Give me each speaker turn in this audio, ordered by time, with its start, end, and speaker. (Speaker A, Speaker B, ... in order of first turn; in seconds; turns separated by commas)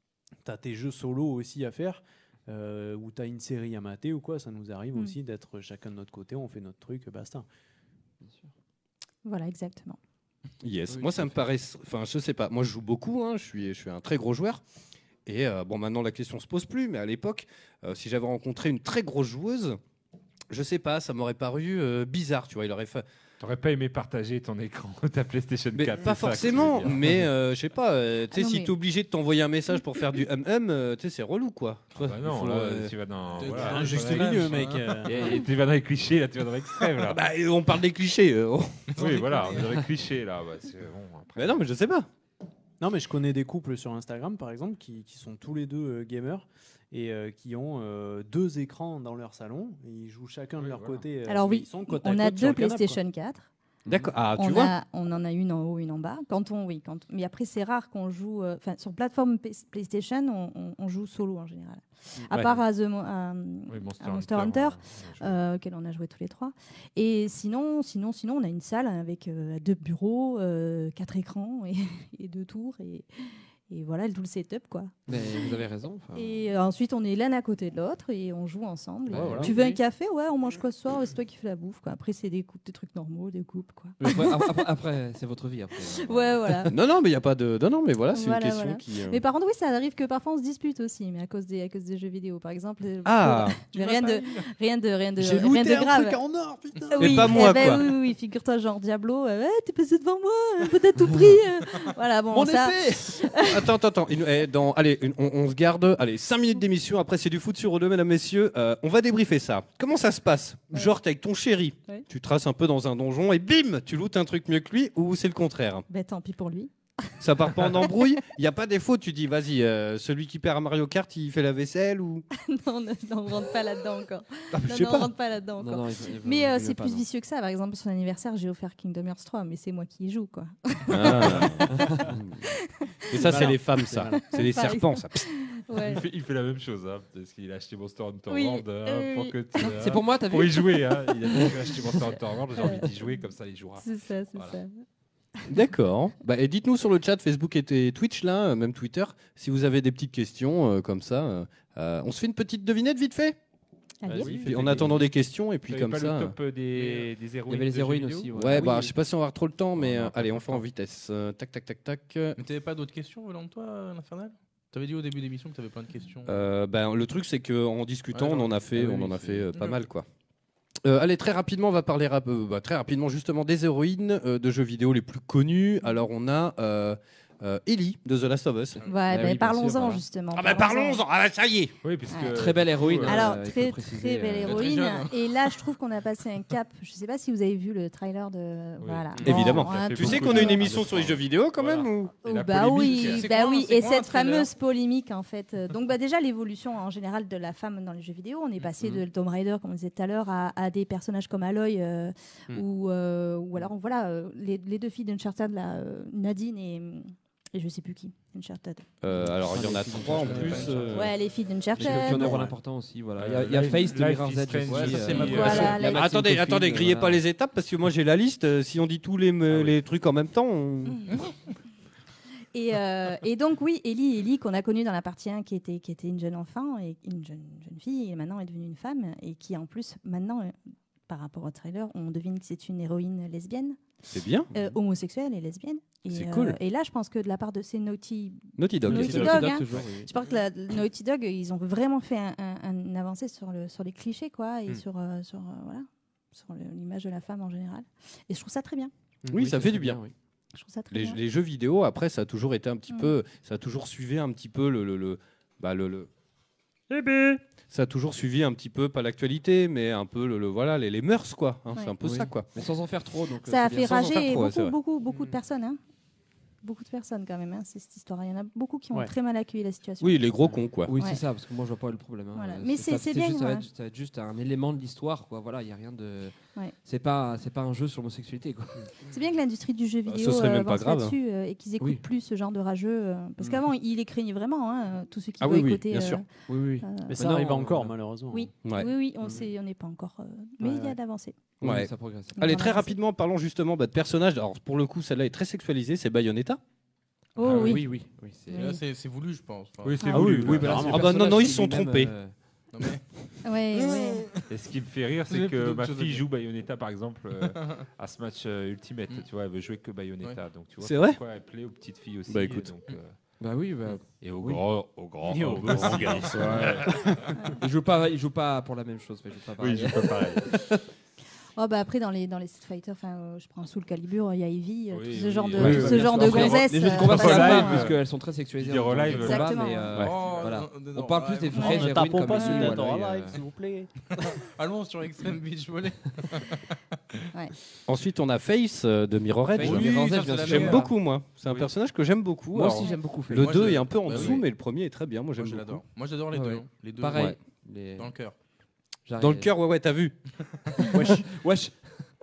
Speaker A: 0.4-7.5, Speaker B: 8.2-8.5, Speaker C: 9.2-10.0, Speaker D: 10.6-14.6, Speaker B: 10.9-11.3, Speaker D: 15.3-19.8, Speaker D: 20.5-23.0, Speaker E: 23.4-27.3, Speaker D: 25.8-32.9, Speaker C: 28.3-28.8, Speaker E: 32.0-37.2, Speaker F: 33.4-34.9, Speaker A: 33.5-35.4, Speaker D: 37.0-39.0, Speaker F: 38.9-39.7, Speaker E: 39.0-41.6, Speaker D: 41.4-42.1, Speaker A: 42.8-53.0, Speaker E: 50.6-51.0, Speaker C: 51.2-53.5, Speaker D: 53.9-54.7, Speaker C: 54.3-73.1, Speaker D: 62.3-62.6, Speaker E: 63.7-65.4, Speaker C: 73.7-84.7, Speaker B: 75.1-76.5, Speaker B: 79.1-79.8, Speaker A: 79.1-79.5, Speaker B: 84.0-86.7, Speaker C: 85.8-86.8, Speaker D: 86.7-89.2, Speaker C: 88.1-96.2, Speaker D: 93.0-93.6, Speaker F: 93.7-94.4, Speaker A: 95.2-97.8, Speaker C: 96.9-103.7, Speaker D: 97.0-97.8, Speaker B: 102.3-103.2, Speaker D: 103.5-115.9, Speaker C: 115.9-117.1, Speaker D: 117.2-122.3, Speaker C: 117.7-118.1, Speaker C: 122.3-133.5, Speaker D: 124.5-125.1, Speaker B: 125.6-127.0, Speaker D: 130.9-132.4, Speaker D: 133.1-135.2, Speaker A: 133.2-134.2, Speaker C: 134.1-136.0, Speaker E: 135.8-144.6, Speaker C: 138.3-139.8, Speaker B: 139.8-140.7, Speaker C: 141.2-141.6, Speaker C: 142.6-142.9, Speaker C: 143.8-144.8, Speaker D: 145.5-153.4, Speaker C: 154.0-154.5, Speaker A: 154.1-155.0, Speaker D: 154.3-156.3, Speaker E: 155.7-158.6, Speaker F: 156.8-157.1, Speaker B: 157.5-158.9, Speaker D: 158.3-162.4, Speaker B: 159.8-160.3, Speaker F: 162.3-166.3, Speaker D: 166.3-170.1, Speaker F: 168.1-169.8, Speaker D: 170.8-178.8, Speaker C: 178.8-181.0, Speaker B: 179.1-180.0, Speaker D: 180.3-181.7, Speaker E: 181.8-183.3, Speaker C: 182.1-182.5, Speaker B: 182.3-184.7, Speaker C: 183.0-190.7, Speaker F: 184.4-185.5, Speaker E: 188.8-193.3, Speaker D: 189.2-192.2, Speaker C: 192.2-208.9, Speaker F: 193.0-194.5, Speaker D: 209.0-211.1, Speaker B: 209.1-211.1, Speaker E: 210.3-210.9, Speaker C: 210.9-212.5, Speaker B: 211.8-217.2, Speaker E: 213.2-215.8, Speaker C: 215.0-216.1, Speaker D: 215.8-221.1, Speaker E: 219.5-219.7, Speaker C: 222.5-230.6, Speaker C: 231.1-233.8, Speaker D: 234.1-234.5, Speaker C: 234.5-248.9, Speaker D: 236.1-236.6, Speaker D: 238.6-239.6, Speaker B: 238.9-240.1, Speaker A: 249.2-249.5, Speaker D: 249.3-250.0, Speaker B: 249.3-250.1, Speaker C: 250.5-251.2, Speaker D: 250.9-256.1, Speaker C: 252.9-253.2, Speaker A: 256.9-257.4, Speaker D: 257.7-262.5, Speaker B: 262.0-264.1, Speaker C: 263.4-265.8, Speaker D: 263.7-264.8, Speaker C: 266.6-270.4, Speaker D: 270.0-270.9, Speaker B: 270.9-278.9, Speaker C: 271.0-271.2, Speaker C: 272.3-273.7, Speaker C: 279.0-286.2, Speaker D: 280.1-281.2, Speaker D: 285.4-286.2, Speaker B: 286.5-287.9, Speaker C: 286.8-287.3, Speaker A: 287.1-288.5, Speaker C: 288.3-291.4, Speaker D: 288.6-288.9, Speaker B: 290.6-290.9, Speaker D: 291.6-296.6, Speaker B: 291.6-292.6, Speaker C: 292.4-293.0, Speaker C: 297.4-298.0, Speaker E: 297.4-297.8, Speaker B: 297.5-298.7, Speaker C: 298.5-298.8, Speaker F: 298.5-300.0, Speaker E: 299.8-300.9, Speaker C: 300.1-300.4, Speaker A: 300.1-301.2, Speaker B: 300.1-302.4, Speaker D: 300.8-302.1, Speaker F: 302.7-303.1, Speaker C: 303.4-304.3, Speaker F: 303.7-304.4, Speaker E: 304.5-313.2, Speaker F: 305.3-306.3, Speaker F: 307.6-307.9, Speaker D: 310.8-311.2, Speaker D: 312.3-312.7, Speaker B: 313.4-314.6, Speaker E: 314.2-317.2, Speaker A: 315.3-317.0, Speaker B: 317.6-320.8, Speaker E: 319.6-320.5, Speaker C: 321.6-328.0, Speaker E: 324.9-328.0, Speaker B: 325.6-333.4, Speaker E: 328.6-329.7, Speaker C: 329.1-329.9, Speaker F: 329.9-331.8, Speaker D: 329.9-330.2, Speaker C: 331.5-332.8, Speaker A: 331.6-334.4, Speaker F: 334.4-336.8, Speaker D: 337.9-345.8, Speaker B: 339.5-341.0, Speaker F: 339.6-340.9, Speaker B: 342.5-344.4, Speaker C: 342.8-343.1, Speaker F: 343.3-344.4, Speaker F: 345.4-347.3, Speaker B: 346.3-348.1, Speaker F: 348.0-348.4, Speaker B: 349.1-349.5, Speaker D: 349.2-350.2, Speaker A: 350.9-351.2, Speaker B: 350.9-351.9